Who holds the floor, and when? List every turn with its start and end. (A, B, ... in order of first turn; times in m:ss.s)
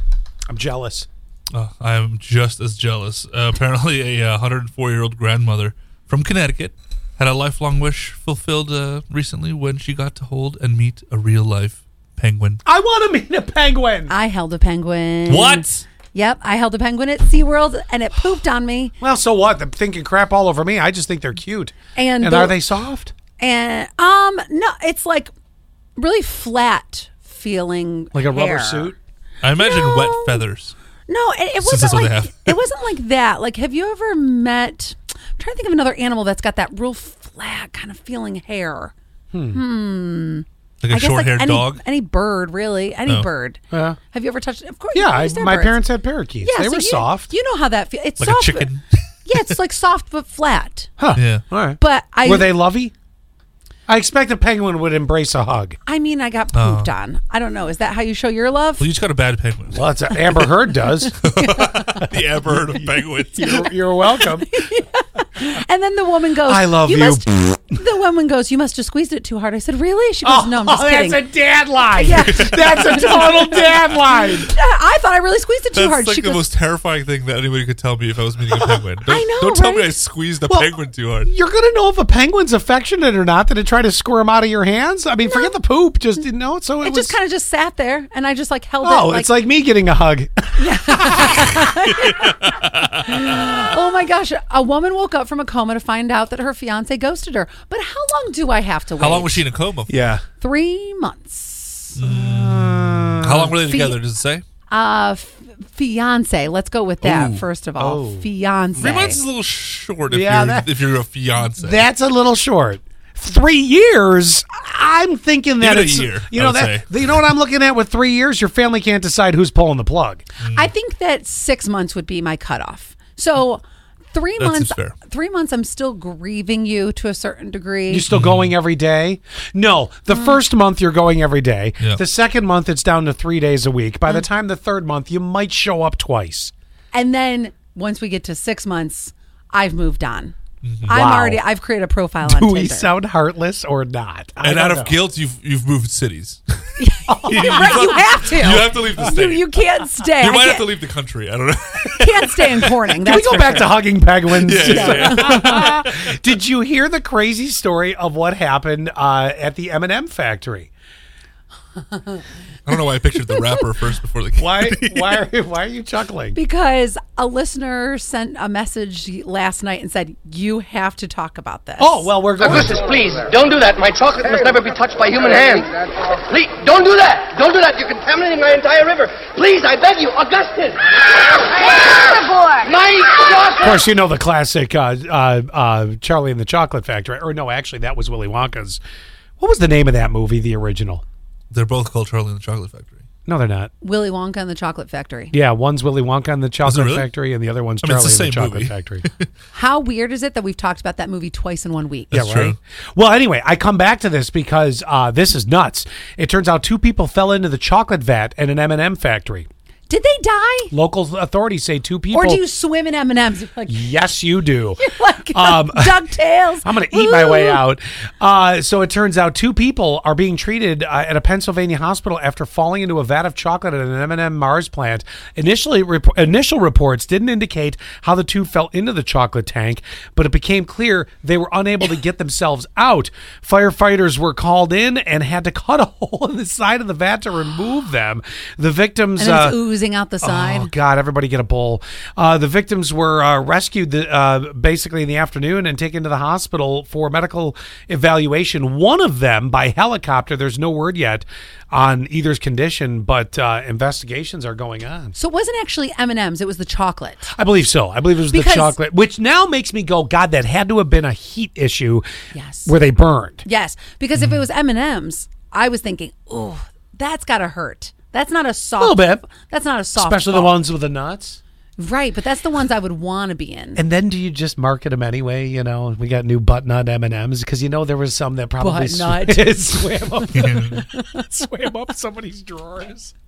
0:00.5-0:01.1 A
0:01.5-0:12.6 B
0:12.6-0:14.1 A
0:14.1-0:18.9 C
0:15.3-0:15.8 B
0:19.0-0:23.1 A
0:22.0-0:22.6 C
0:23.4-0:25.3 C
0:26.0-0:28.9 C
0:28.1-0:29.0 A
0:29.4-0:30.7 B
0:29.5-0:30.4 C
0:31.1-0:38.9 C
0:31.6-0:32.6 B
0:39.3-0:39.6 A
0:39.5-0:45.9 C
0:40.8-0:41.8 B
0:43.7-0:44.0 A
0:44.9-0:47.3 A
0:46.4-0:48.7 C
0:48.2-0:49.5 B
0:49.2-0:50.9 C
0:51.0-0:52.9 A
0:51.1-0:51.4 B
0:51.8-0:52.6 C
0:53.9-0:55.8 A
0:55.8-0:58.8 C
0:56.5-0:56.9 B
0:58.8-1:00.5 B
0:59.7-1:01.2 A
1:01.1-1:02.0 C
1:01.2-1:03.7 B
1:01.9-1:04.6 A
1:04.1-1:11.3 C
1:06.4-1:07.6 A
1:10.2-1:14.5 A
1:11.9-1:16.5 C
1:12.2-1:13.0 B
1:15.7-1:21.3 B
1:19.0-1:19.9 C
1:21.2-1:27.1 A
1:25.2-1:25.5 C
1:26.8-1:29.3 C
1:28.8-1:31.6 A
1:30.6-1:39.4 C
1:31.9-1:33.4 B
1:39.0-1:39.9 B
1:39.9-1:40.2 A
1:40.4-1:42.0 C
1:42.0-1:44.4 B
1:42.0-1:43.6 A
1:43.6-1:44.0 C
1:44.7-1:49.2 C
1:47.0-1:47.4 B
1:47.8-1:49.2 A
1:48.8-1:51.8 B
1:50.1-1:50.7 A
1:51.5-2:00.2 A
1:55.6-1:57.3 B
2:00.4-2:00.7 B
2:00.5-2:03.6 C
2:04.1-2:08.0 C
2:04.4-2:04.9 B
2:07.9-2:16.5 A
2:08.1-2:08.5 B
2:10.1-2:10.4 C
2:16.9-2:20.3 C
2:20.6-2:21.0 B
2:20.9-2:21.4 A
2:20.9-2:22.9 C
2:22.2-2:25.0 A
2:24.4-2:32.8 B
2:26.8-2:30.7 C
2:27.1-2:27.9 A
2:32.0-2:33.7 C
2:33.0-2:40.7 A
2:34.3-2:36.1 B
2:34.6-2:35.8 C
2:42.6-2:45.2 B
2:44.4-2:46.4 A
2:46.3-2:52.1 C
2:51.8-2:53.0 A
2:52.6-3:00.8 D
3:02.5-3:03.6 D
3:03.6-3:08.8 A
3:09.4-3:11.0 A
3:11.5-3:13.0 B
3:13.2-3:13.7 A
3:13.8-3:15.3 C
3:15.3-3:19.0 A
3:16.6-3:17.1 B
3:17.8-3:19.3 B
3:19.5-3:22.1 C
3:22.1-3:22.6 B
3:22.1-3:29.5 A
3:29.9-3:30.7 C
3:30.7-3:32.4 A
3:32.1-3:33.9 C
3:33.7-3:36.0 A
3:34.8-3:37.6 C
3:36.6-3:59.6 A
3:59.2-4:00.7 C
4:00.2-4:15.1 A
4:15.1-4:17.3 C
4:17.3-4:22.0 A
4:18.3-4:18.8 C
4:22.3-4:22.7 C
4:22.6-4:23.4 A
4:23.4-4:30.6 C
4:28.8-4:29.2 A
4:30.0-4:31.4 A
4:31.8-4:33.8 C
4:33.8-4:43.1 A
4:38.6-4:41.2 C
4:40.3-4:40.8 B